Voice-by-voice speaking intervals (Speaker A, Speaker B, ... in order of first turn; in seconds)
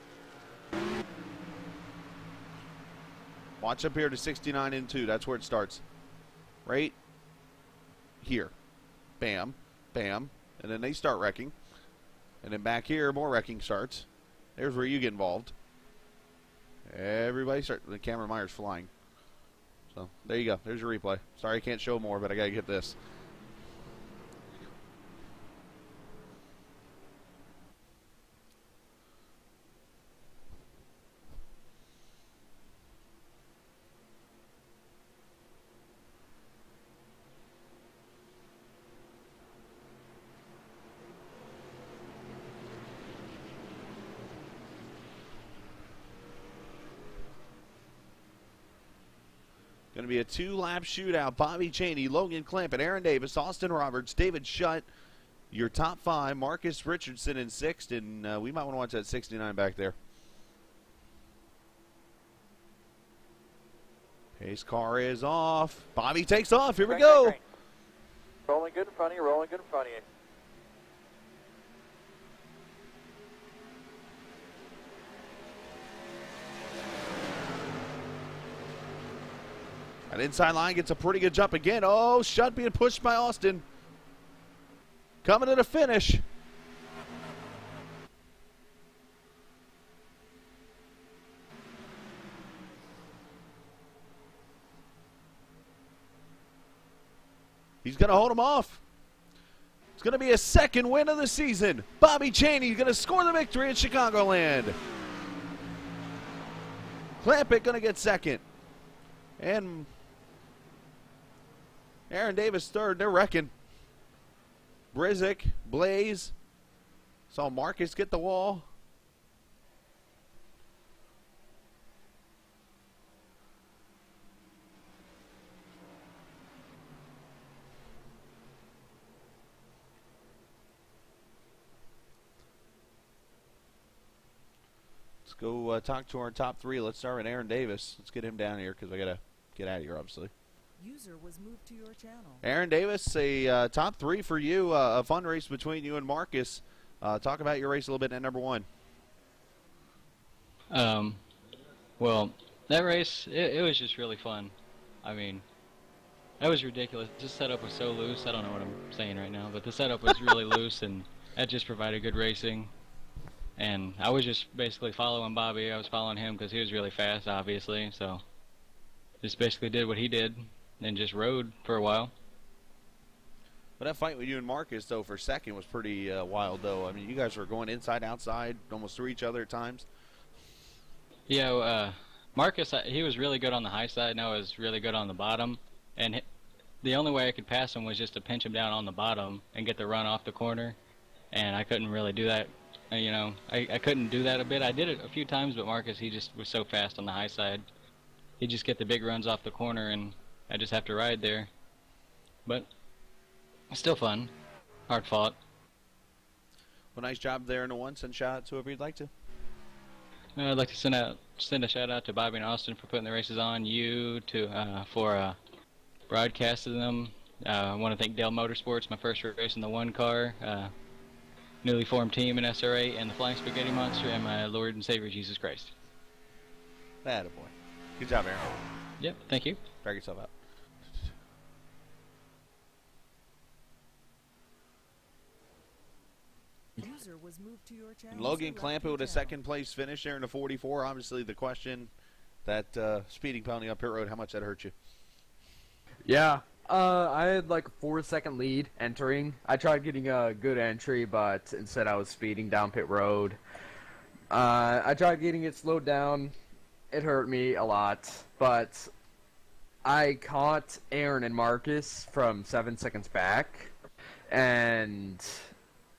Speaker A: 3.6-5.8, 6.7-7.0, 8.2-8.5, 9.2-11.5, 12.4-15.5, 16.9-18.9, 19.9-23.0, 49.9-54.9, 55.5-60.0, 64.4-67.3, 80.1-83.6, 85.2-86.2, 97.8-98.8, 100.0-104.8, 107.2-108.4, 109.4-109.9, 112.1-113.5, 114.9-116.3, 117.3-118.7, 135.2-140.3, 142.4-148.7, 173.8-179.8, 206.9-209.1, 227.0-228.4, 229.8-230.3, 238.1-241.9, 242.4-244.7
Speaker B: 66.9-67.4, 68.5-70.0
Speaker C: 140.8-142.4, 236.8-239.4
Speaker D: 150.7-151.2, 152.0-155.4, 156.4-162.7, 163.6-168.2, 169.2-172.1, 181.3-186.2, 186.8-190.8, 191.3-197.6, 198.4-201.5, 203.7-204.3, 204.9-205.3, 210.3-215.4, 216.1-220.7, 221.6-225.7, 229.0-229.6
Speaker E: 246.0-253.4, 254.3-256.3, 256.9-258.9, 259.9-263.7, 264.3-265.4